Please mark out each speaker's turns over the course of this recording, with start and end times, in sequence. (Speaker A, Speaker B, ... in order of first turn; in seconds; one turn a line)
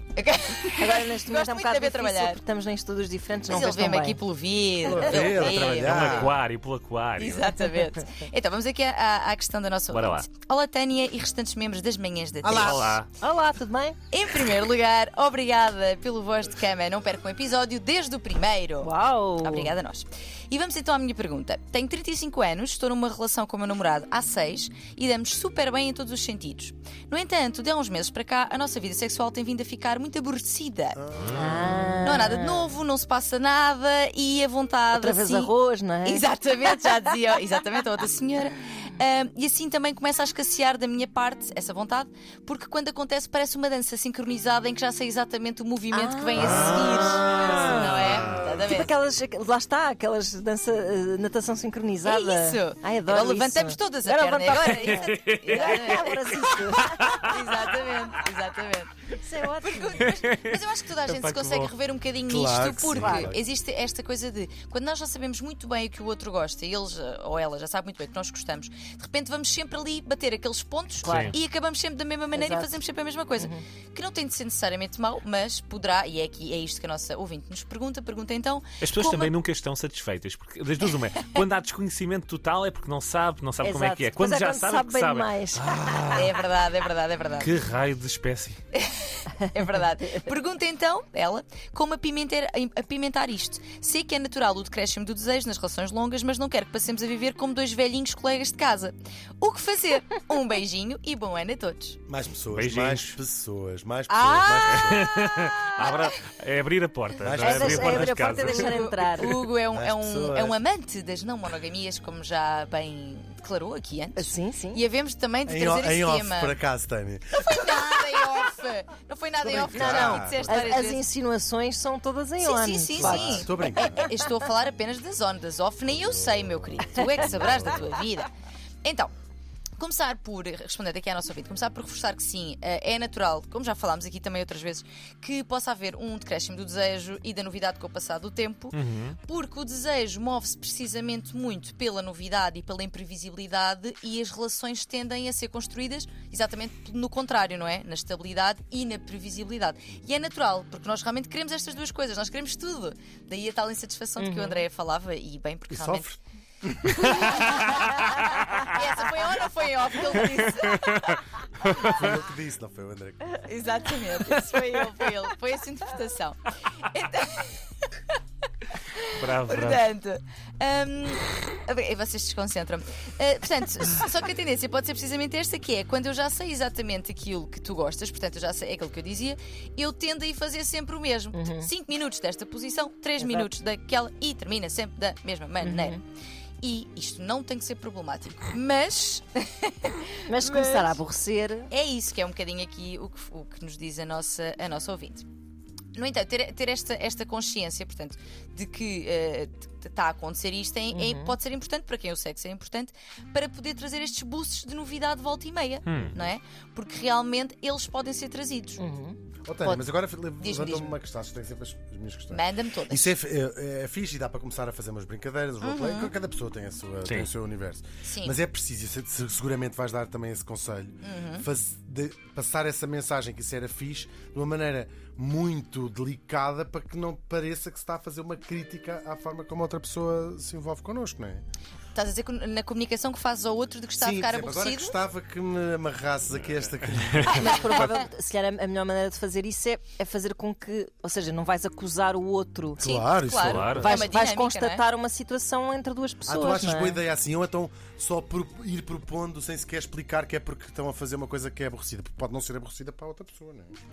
Speaker A: 0.2-2.4
Speaker B: 0.8-4.2
Speaker A: 3.5-6.3
Speaker C: 4.9-6.4
Speaker D: 5.1-7.6
Speaker A: 7.2-12.9
Speaker D: 9.9-10.3
Speaker C: 12.4-13.0
Speaker D: 12.6-13.1
Speaker B: 13.2-14.0
Speaker A: 14.1-31.0
Speaker B: 18.8-19.7
Speaker C: 30.9-32.0
Speaker D: 31.2-31.5
Speaker B: 31.3-32.7
Speaker A: 32.0-35.5
Speaker B: 34.9-37.1
Speaker A: 36.0-48.9
Speaker B: 45.9-57.3
Speaker C: 46.4-48.6
Speaker D: 46.4-48.3
Speaker A: 52.0-56.6
Speaker D: 54.8-56.2
Speaker D: 56.7-57.5
Speaker A: 57.2-79.4
Speaker B: 59.1-60.1
Speaker D: 60.0-60.5
Speaker D: 61.1-61.7
Speaker C: 62.3-63.4
Speaker B: 62.9-63.3
Speaker B: 71.0-71.4
Speaker D: 71.1-71.4
Speaker B: 72.3-72.8
Speaker B: 73.4-73.6
Speaker D: 78.8-86.4
Speaker B: 83.6-85.8
Speaker A: 86.1-87.6
Speaker D: 87.4-88.6
Speaker A: 88.8-102.0
Speaker C: 102.1-105.2
Speaker D: 102.5-103.2
Speaker A: 104.1-106.1
Speaker D: 104.7-108.8
Speaker C: 107.2-108.2
Speaker B: 107.4-109.4
Speaker A: 107.8-116.6
Speaker C: 109.7-110.6
Speaker B: 114.2-114.8
Speaker C: 115.5-118.0
Speaker A: 117.4-121.0
Speaker C: 119.4-120.7
Speaker B: 119.8-124.1
Speaker A: 122.4-128.3
Speaker C: 123.0-124.1
Speaker C: 125.9-127.9
Speaker A: 128.8-129.1
Speaker A: 129.8-156.2
Speaker D: 138.7-139.2
Speaker B: 154.2-154.7
Speaker C: 155.7-157.6
Speaker A: 157.0-161.2
Speaker D: 157.2-157.8
Speaker D: 160.3-162.1
Speaker C: 161.8-163.4
Speaker A: 163.4-168.2
Speaker A: 168.9-186.0
Speaker D: 169.1-169.8
Speaker B: 181.3-181.7
Speaker B: 183.2-183.5
Speaker B: 185.6-186.0
Speaker A: 186.6-191.0
Speaker B: 190.3-191.7
Speaker A: 191.7-195.3
Speaker A: 195.9-208.8
Speaker B: 200.9-201.4
Speaker D: 205.9-206.2
Speaker B: 208.8-209.2
Speaker C: 209.5-231.4
Speaker A: 209.6-209.9
Speaker A: 210.4-210.9
Speaker A: 212.3-213.1
Speaker A: 215.6-216.1
Speaker A: 218.1-218.4
Speaker A: 221.0-221.5
Speaker A: 231.9-235.0
Speaker C: 234.0-237.9
Speaker D: 237.1-237.4
Speaker B: 237.3-242.8
Speaker A: 237.4-238.0
Speaker C: 242.8-244.0
Speaker A: 242.8-244.8
Speaker D: 243.4-243.9
Speaker B: 243.8-247.0
Speaker C: 246.2-253.8